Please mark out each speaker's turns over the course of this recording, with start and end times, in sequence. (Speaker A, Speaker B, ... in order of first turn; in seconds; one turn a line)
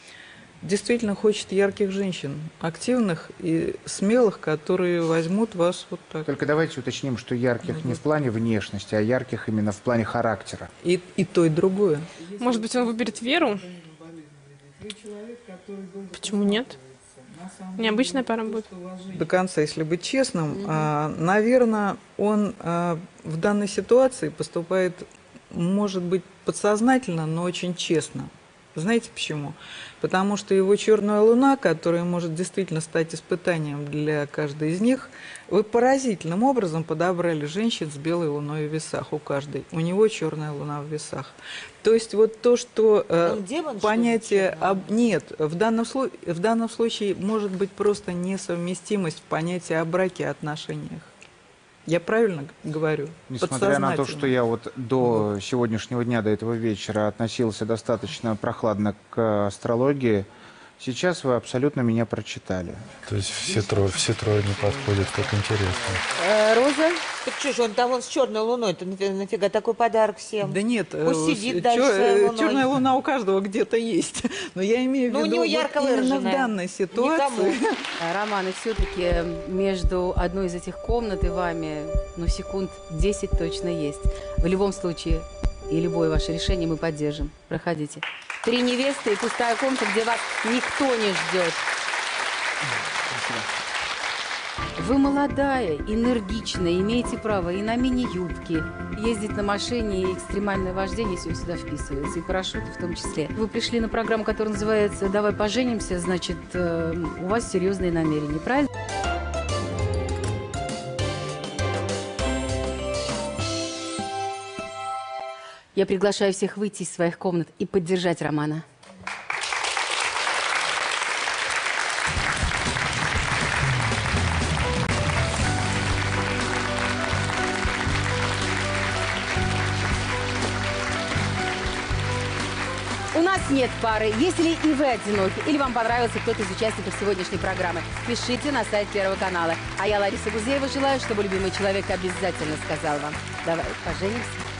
Speaker A: 0.6-6.3
Speaker B: 6.2-10.7
Speaker A: 7.6-8.0
Speaker A: 10.8-12.3
Speaker C: 12.4-13.7
Speaker A: 13.8-16.1
Speaker C: 16.1-16.8
Speaker A: 17.2-51.1
Speaker C: 17.8-18.7
Speaker D: 20.5-20.9
Speaker E: 43.2-44.9
Speaker A: 51.9-54.4
Speaker B: 53.3-60.3
Speaker B: 60.8-62.9
Speaker F: 63.0-66.0
Speaker E: 66.1-72.7
Speaker A: 70.4-77.8
Speaker E: 75.1-77.6
Speaker D: 78.0-91.6
Speaker B: 92.8-93.5
Speaker D: 94.8-108.7
Speaker D: 115.7-118.6
Speaker D: 133.1-144.4